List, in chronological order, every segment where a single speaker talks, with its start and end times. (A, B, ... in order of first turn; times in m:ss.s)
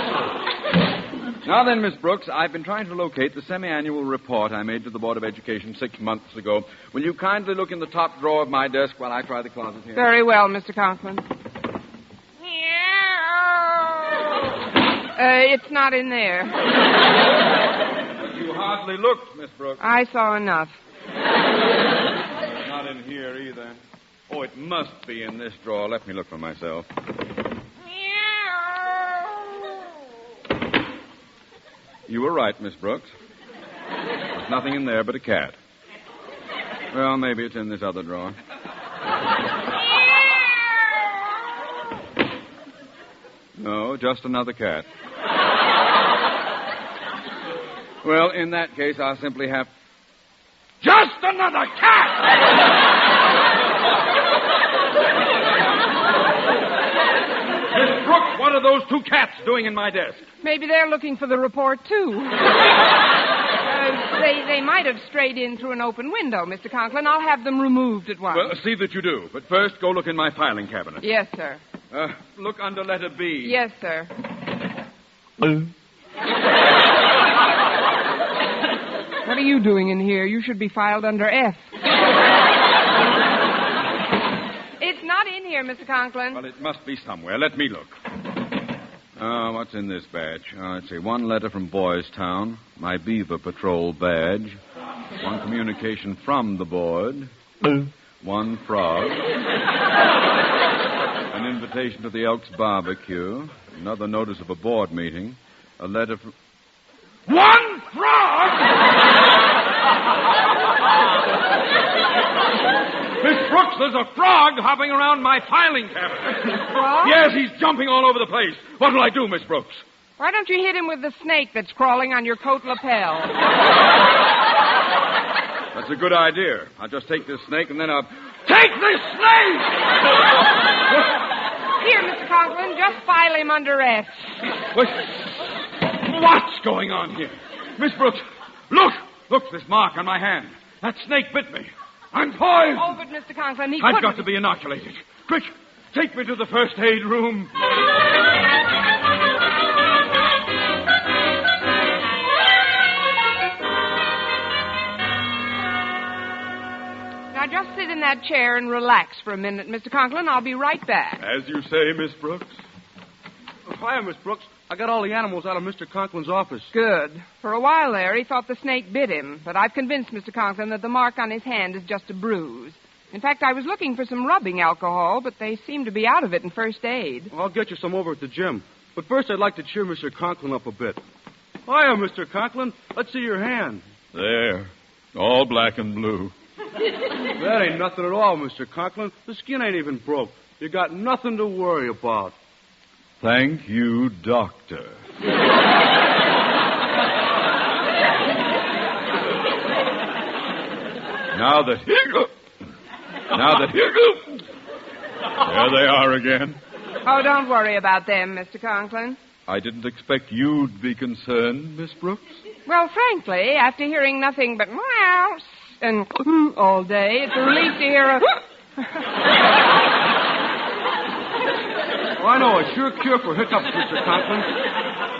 0:01.4-0:10.1 A
0:09.9-0:11.2 B
0:12.4-0:16.7 B
0:18.2-0:19.8 A
0:19.8-0:20.7 B
0:22.6-0:26.9 A
0:28.4-0:28.8 B
0:32.1-0:33.1 A
0:34.3-0:35.6 A
0:36.9-0:38.4 A
0:43.6-0:44.8 A
0:48.0-0:49.7 A
0:50.8-0:52.3 A
0:57.7-1:00.2 A
1:00.4-1:02.7 B
1:03.6-1:08.5 B
1:08.3-1:11.1 A
1:11.0-1:11.6 B
1:11.9-1:13.6 A
1:13.4-1:14.1 B
1:19.2-1:21.6 B
1:24.8-1:26.4 B
1:26.3-1:28.0 A
1:29.2-1:34.6 A
1:35.2-1:37.3 A
1:38.2-1:39.2 A
1:41.3-1:46.3 A
1:47.3-1:48.7 A
1:53.2-1:59.8 A
1:56.7-1:57.2 B
2:00.2-2:03.4 B
2:05.7-2:09.8 A
2:11.8-2:14.3 B
2:14.7-2:23.0 A
2:22.7-2:24.2 B
2:23.8-2:27.5 A
2:37.3-2:41.2 B
2:41.2-2:42.6 A
2:43.7-2:46.7 C
2:46.7-2:57.3 B
2:57.3-3:01.0 C
3:01.6-3:03.8 C
3:04.1-3:06.3 A
3:07.3-3:12.3 C
3:13.2-3:15.0 A
3:21.3-3:22.3 A
3:23.3-3:24.4 A
3:25.4-3:26.6 A
3:27.0-3:29.2 B
3:29.5-3:32.4 A
3:32.6-3:38.4 B
3:42.2-3:44.5 C